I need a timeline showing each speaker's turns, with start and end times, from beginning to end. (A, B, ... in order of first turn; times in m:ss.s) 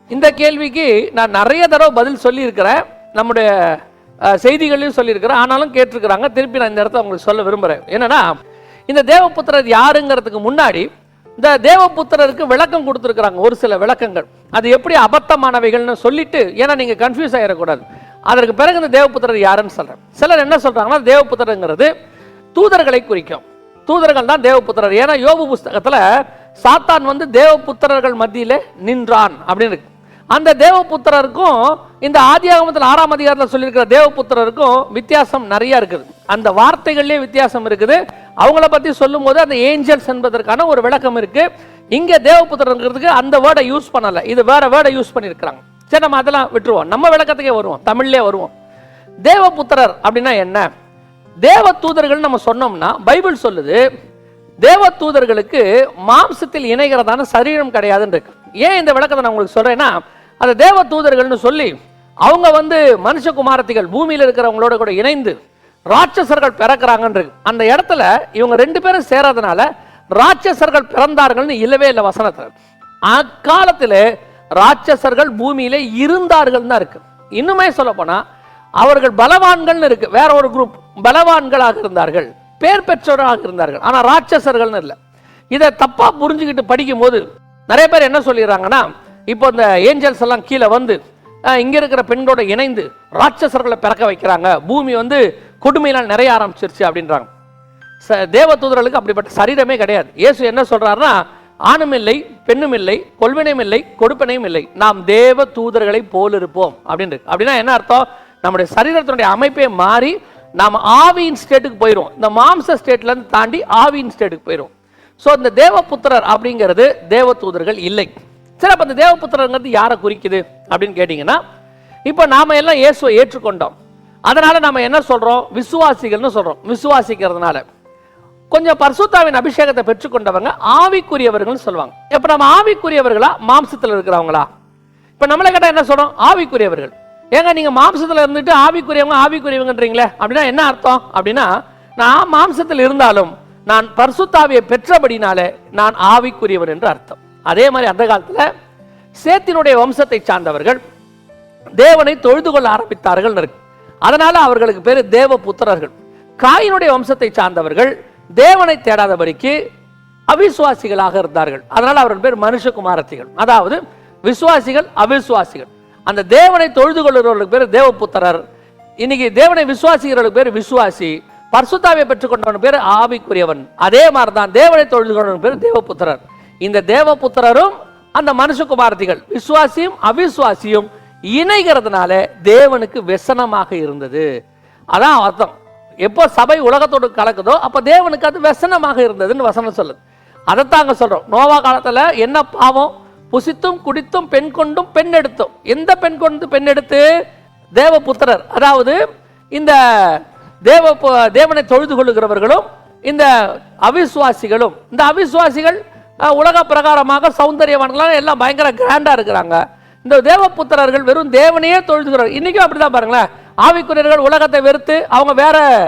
0:00.1-0:03.5 A
0:04.3-0:08.3 A
0:08.9-0:21.9 A
0:22.5-0:26.0 A
0:26.6-0:48.5 A
0:49.3-0:50.6 A
0:51.4-0:53.8 A
0:54.6-1:01.7 A
1:02.2-1:05.4 A
1:05.9-1:12.5 A
1:13.1-1:14.0 A
1:14.6-1:18.2 A
1:18.8-1:25.0 A
1:25.5-1:31.0 A
1:31.5-1:37.3 A
1:38.0-2:01.4 A
2:02.1-2:03.7 A
2:04.3-2:07.6 A
2:08.5-2:14.5 A
2:15.2-2:28.5 A
2:29.2-2:30.8 A
2:31.8-2:33.5 A
2:34.0-2:39.5 A
2:40.3-2:48.4 A
2:49.0-3:04.2 A
3:04.9-3:05.5 A
3:06.0-3:10.0 A
3:10.5-3:17.1 A
3:17.8-3:19.0 A
3:19.5-3:23.3 A
3:23.8-3:35.6 A